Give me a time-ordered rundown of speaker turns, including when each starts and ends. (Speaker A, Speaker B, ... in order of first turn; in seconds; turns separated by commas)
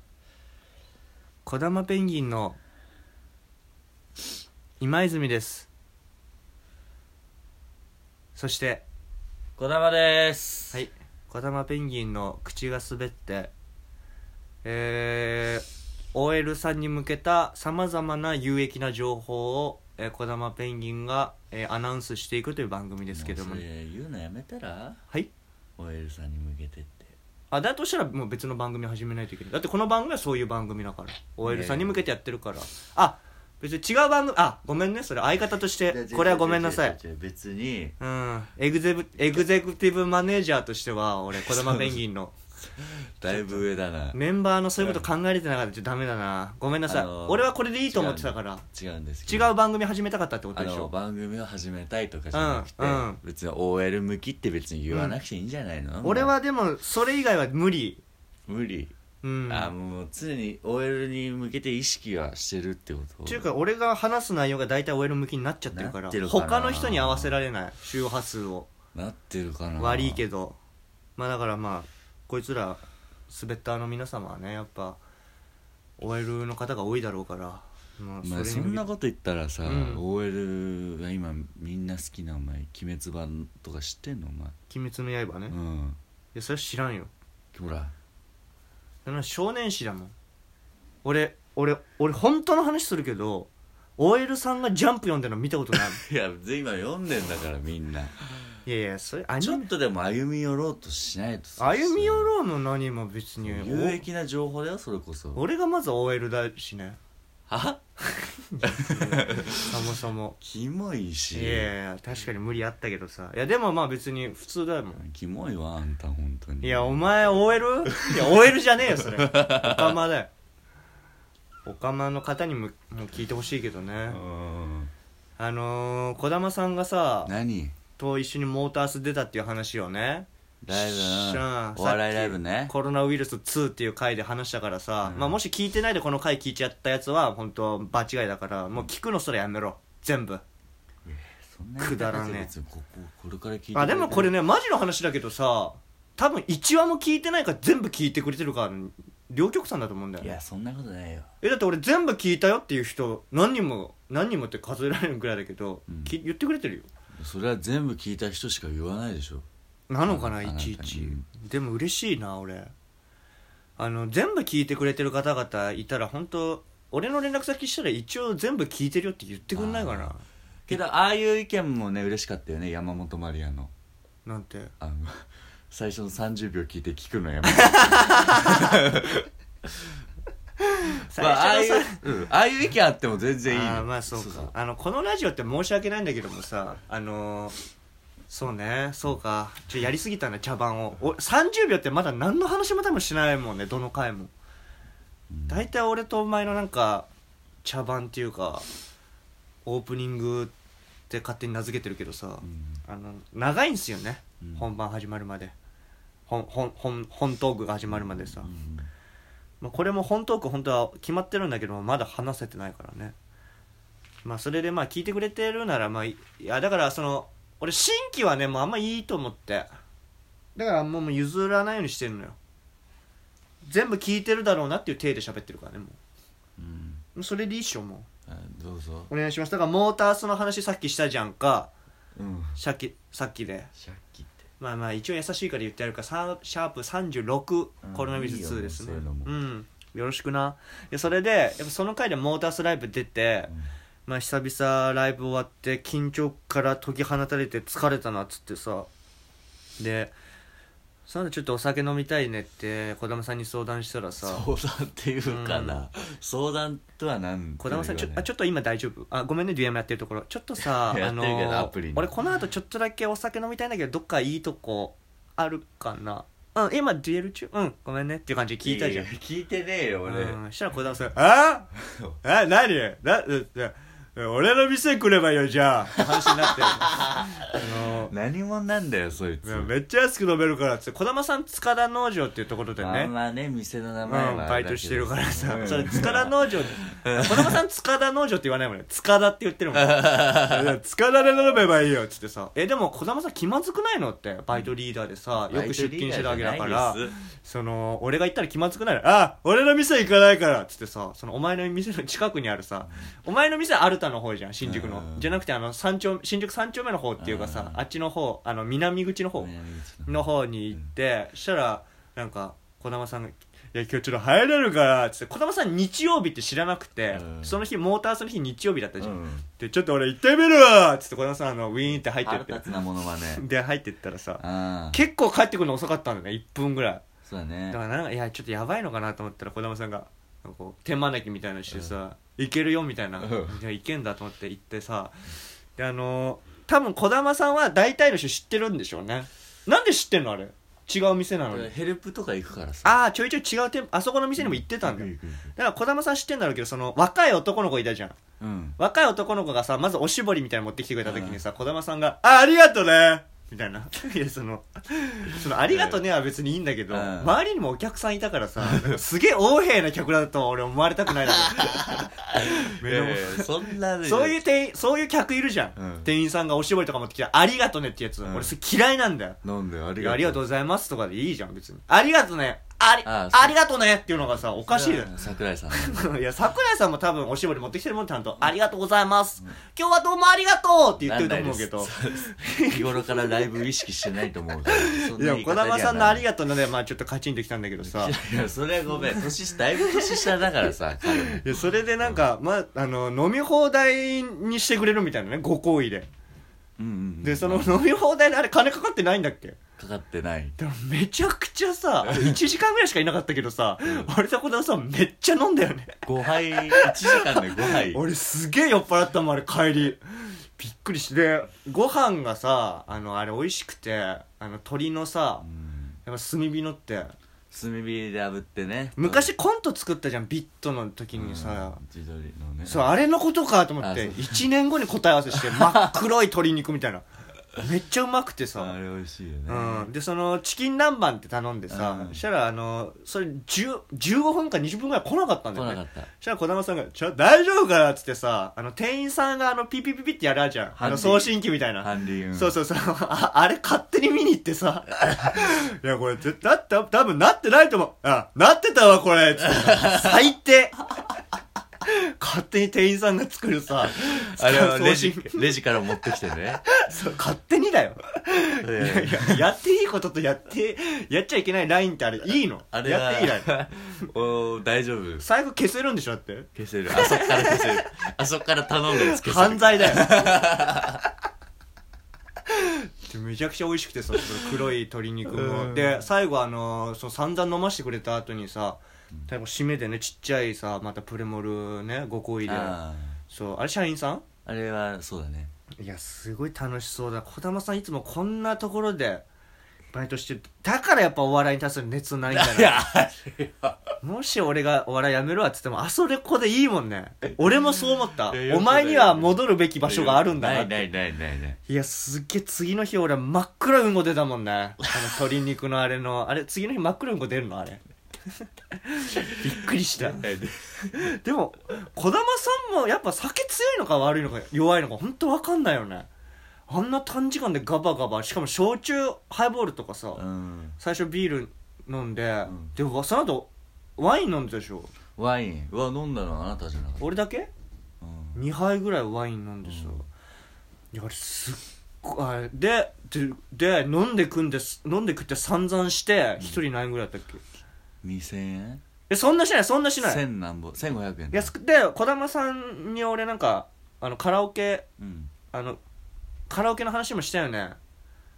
Speaker A: 1.4-2.6, Speaker A: 4.8-5.7, Speaker A: 8.3-8.8, Speaker B: 9.6-10.8, Speaker A: 10.7-13.5, Speaker A: 14.6-23.6, Speaker B: 23.1-25.0, Speaker B: 25.8-27.1, Speaker A: 27.5-37.0, Speaker B: 31.4-32.0, Speaker B: 35.9-38.0, Speaker A: 38.0-42.4, Speaker B: 41.4-42.0, Speaker B: 42.8-44.2, Speaker A: 43.2-48.6, Speaker B: 44.8-45.0, Speaker B: 46.9-49.5, Speaker A: 49.2-50.9, Speaker B: 50.5-56.3, Speaker A: 52.3-53.2, Speaker A: 54.9-55.2, Speaker A: 56.0-58.0, Speaker B: 58.5-58.9, Speaker A: 59.2-59.7, Speaker B: 59.5-63.5, Speaker A: 63.2-68.7, Speaker B: 65.7-67.3, Speaker B: 68.9-70.2, Speaker A: 69.8-70.6, Speaker A: 71.2-75.0, Speaker A: 76.0-78.8, Speaker B: 78.2-84.5, Speaker A: 79.6-80.0, Speaker A: 84.7-85.5, Speaker B: 85.5-86.0, Speaker A: 86.3-87.1, Speaker B: 87.5-87.9, Speaker A: 89.0-90.1, Speaker A: 91.0-96.0, Speaker B: 95.7-98.2, Speaker A: 98.7-99.7, Speaker B: 99.4-102.3, Speaker A: 101.6-104.0, Speaker B: 103.4-105.4, Speaker A: 105.3-107.0, Speaker B: 107.5-107.8, Speaker A: 108.0-110.4, Speaker B: 108.6-109.8, Speaker B: 110.4-111.7, Speaker A: 111.3-115.0, Speaker B: 115.0-117.2, Speaker A: 116.6-120.3, Speaker B: 118.0-118.3, Speaker B: 119.0-119.9, Speaker A: 121.7-124.2, Speaker B: 124.1-124.9, Speaker A: 125.4-127.3, Speaker B: 127.2-127.7, Speaker A: 128.0-140.4, Speaker B: 130.6-132.7, Speaker B: 135.0-135.4, Speaker B: 141.0-144.4, Speaker A: 141.8-142.5, Speaker A: 143.7-150.4, Speaker B: 150.2-151.3, Speaker A: 151.4-156.9, Speaker B: 155.9-156.1, Speaker B: 157.2-159.4, Speaker A: 159.9-162.7, Speaker B: 160.0-161.3, Speaker A: 163.8-170.8, Speaker B: 169.5-170.1, Speaker B: 170.7-173.7, Speaker A: 174.2-174.7, Speaker B: 174.8-179.9, Speaker A: 177.7-178.6, Speaker A: 180.8-182.0, Speaker B: 181.1-184.5, Speaker A: 183.5-187.5, Speaker A: 188.3-194.3, Speaker B: 195.3-195.7, Speaker A: 195.5-197.1, Speaker A: 197.6-198.7, Speaker A: 199.6-200.5, Speaker A: 201.1-205.5, Speaker B: 202.4-202.8, Speaker B: 204.4-204.7, Speaker A: 206.3-208.5, Speaker B: 207.9-208.9, Speaker A: 209.6-213.1, Speaker A: 214.2-219.7, Speaker A: 220.6-222.4, Speaker A: 223.7-226.0, Speaker B: 226.6-227.0, Speaker A: 227.1-228.1, Speaker B: 228.3-229.1, Speaker A: 229.1-231.7, Speaker B: 232.2-232.6, Speaker A: 232.6-233.7, Speaker B: 233.7-234.4, Speaker A: 234.6-243.5, Speaker B: 237.8-239.3, Speaker A: 244.1-248.9, Speaker A: 249.8-250.1, Speaker A: 251.1-254.5, Speaker B: 254.2-258.2, Speaker A: 255.3-255.8, Speaker A: 257.6-269.1, Speaker B: 260.6-262.1, Speaker B: 268.6-270.4, Speaker A: 270.1-271.7, Speaker B: 271.8-272.2, Speaker A: 272.2-278.1, Speaker B: 276.9-279.7, Speaker A: 279.4-283.1, Speaker B: 282.8-287.6, Speaker A: 284.0-309.5, Speaker B: 289.7-290.7, Speaker B: 295.4-297.1, Speaker B: 302.8-303.1, Speaker B: 304.6-305.4, Speaker B: 307.2-307.8, Speaker B: 309.3-310.9, Speaker A: 310.1-322.7, Speaker B: 317.1-317.6, Speaker B: 319.0-319.5, Speaker B: 321.8-323.4, Speaker A: 323.3-327.0, Speaker B: 324.4-325.0, Speaker B: 327.2-327.8, Speaker A: 327.7-335.1, Speaker B: 333.2-333.6, Speaker A: 335.8-341.7, Speaker B: 341.5-343.0, Speaker A: 342.8-348.2, Speaker B: 344.4-345.5, Speaker B: 348.4-348.8, Speaker A: 348.8-369.4, Speaker B: 351.0-351.4, Speaker B: 355.4-356.0, Speaker B: 356.9-357.4, Speaker B: 358.6-359.0, Speaker B: 361.4-364.4, Speaker B: 365.8-366.1, Speaker B: 368.2-368.6, Speaker B: 369.4-370.4, Speaker A: 370.0-375.1, Speaker B: 373.0-373.6, Speaker B: 374.7-376.1, Speaker A: 375.7-383.5, Speaker B: 381.0-386.2, Speaker A: 384.7-388.1, Speaker B: 387.8-391.5, Speaker A: 389.1-396.1, Speaker B: 396.8-397.8, Speaker A: 397.2-399.6, Speaker B: 399.8-400.6, Speaker A: 400.6-406.0, Speaker B: 402.0-402.4, Speaker B: 403.8-404.1, Speaker B: 406.0-408.0, Speaker A: 406.7-415.4, Speaker B: 415.4-416.0, Speaker A: 416.0-417.1, Speaker B: 417.5-419.3, Speaker A: 418.9-421.8, Speaker B: 421.1-422.9, Speaker A: 422.6-427.0, Speaker B: 423.8-424.5, Speaker B: 425.3-425.9, Speaker A: 427.6-428.8, Speaker B: 428.6-429.9, Speaker A: 429.5-450.9, Speaker B: 431.7-432.2, Speaker B: 435.5-436.1, Speaker B: 440.8-442.6, Speaker B: 449.6-450.1, Speaker A: 451.9-455.4, Speaker B: 453.9-456.6, Speaker A: 456.7-463.5, Speaker B: 458.6-459.4, Speaker B: 462.7-465.2, Speaker A: 465.2-467.9, Speaker B: 466.6-471.0, Speaker A: 468.9-470.1, Speaker A: 472.5-482.8, Speaker B: 475.3-476.0, Speaker B: 482.4-483.2, Speaker A: 483.3-484.2, Speaker B: 484.4-485.5, Speaker A: 485.8-489.2, Speaker A: 489.9-492.9, Speaker B: 492.3-493.9, Speaker A: 494.0-500.9, Speaker B: 497.2-501.6, Speaker A: 501.7-507.8, Speaker A: 508.8-510.2, Speaker B: 510.0-510.9, Speaker A: 510.9-516.1, Speaker A: 516.7-520.2, Speaker B: 520.1-520.8, Speaker A: 520.8-524.9, Speaker B: 522.4-522.7, Speaker B: 525.2-527.1, Speaker A: 527.0-527.5, Speaker B: 528.0-528.4, Speaker A: 528.3-530.1, Speaker B: 529.6-530.0, Speaker A: 530.9-537.4, Speaker B: 538.0-538.8, Speaker A: 539.1-540.2, Speaker B: 540.0-541.5, Speaker A: 541.3-544.9, Speaker B: 545.0-545.3, Speaker A: 545.5-545.8, Speaker A: 546.5-547.8